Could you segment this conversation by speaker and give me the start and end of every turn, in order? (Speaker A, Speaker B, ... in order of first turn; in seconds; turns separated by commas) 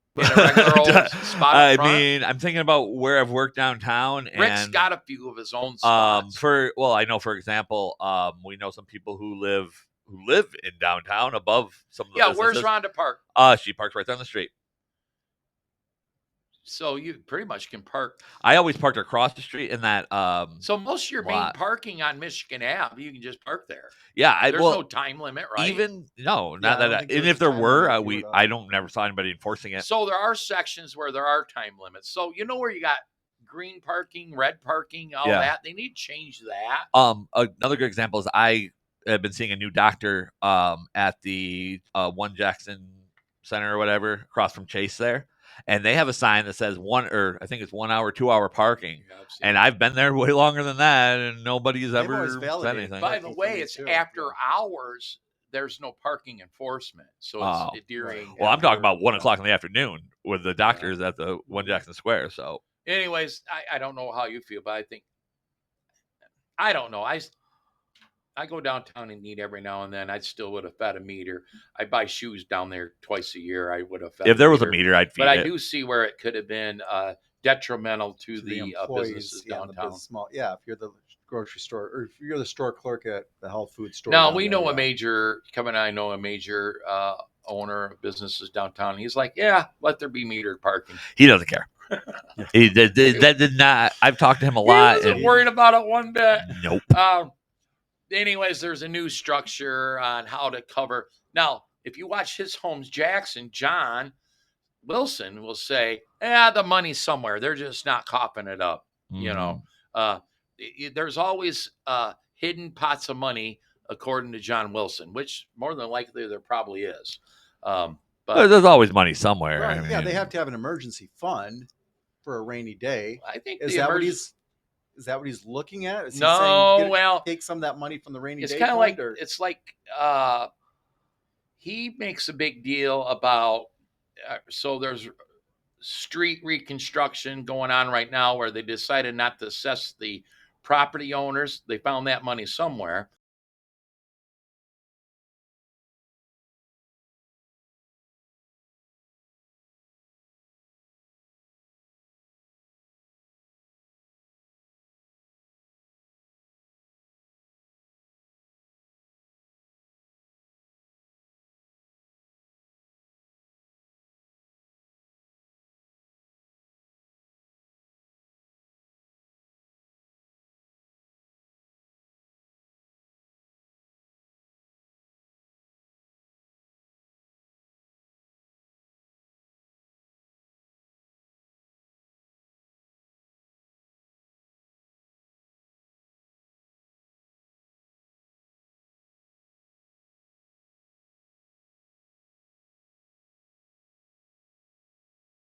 Speaker A: 0.1-2.1, Speaker B: 0.2-4.9, Speaker A: 4.3-6.4, Speaker B: 5.8-12.7, Speaker A: 12.1-13.2, Speaker B: 13.3-14.5, Speaker A: 16.6-18.2, Speaker B: 18.4-20.6, Speaker A: 20.6-24.0, Speaker B: 21.2-21.6, Speaker B: 24.1-24.8, Speaker A: 24.5-25.9, Speaker B: 25.5-29.9, Speaker C: 26.6-28.4, Speaker A: 29.8-36.9, Speaker B: 35.2-35.5, Speaker B: 36.9-53.1, Speaker A: 49.0-49.6, Speaker C: 51.9-54.4, Speaker A: 53.0-58.6, Speaker B: 57.4-57.8, Speaker C: 58.0-59.3, Speaker B: 58.3-62.6, Speaker C: 61.5-61.8, Speaker A: 62.8-65.0, Speaker A: 66.6-67.3, Speaker A: 68.3-80.0, Speaker B: 74.2-75.5, Speaker C: 78.3-84.9, Speaker A: 84.1-91.0, Speaker B: 91.1-91.7, Speaker A: 91.9-92.2, Speaker B: 92.5-95.4, Speaker A: 94.6-97.3, Speaker B: 96.4-96.9, Speaker A: 98.1-104.1, Speaker A: 104.8-118.5, Speaker B: 109.1-109.6, Speaker B: 118.3-120.3, Speaker C: 119.5-121.7, Speaker C: 122.2-124.3, Speaker A: 123.2-124.2, Speaker C: 125.0-129.2, Speaker A: 126.1-127.3, Speaker A: 128.4-130.5, Speaker A: 131.6-133.7, Speaker A: 134.2-135.1, Speaker A: 135.8-143.1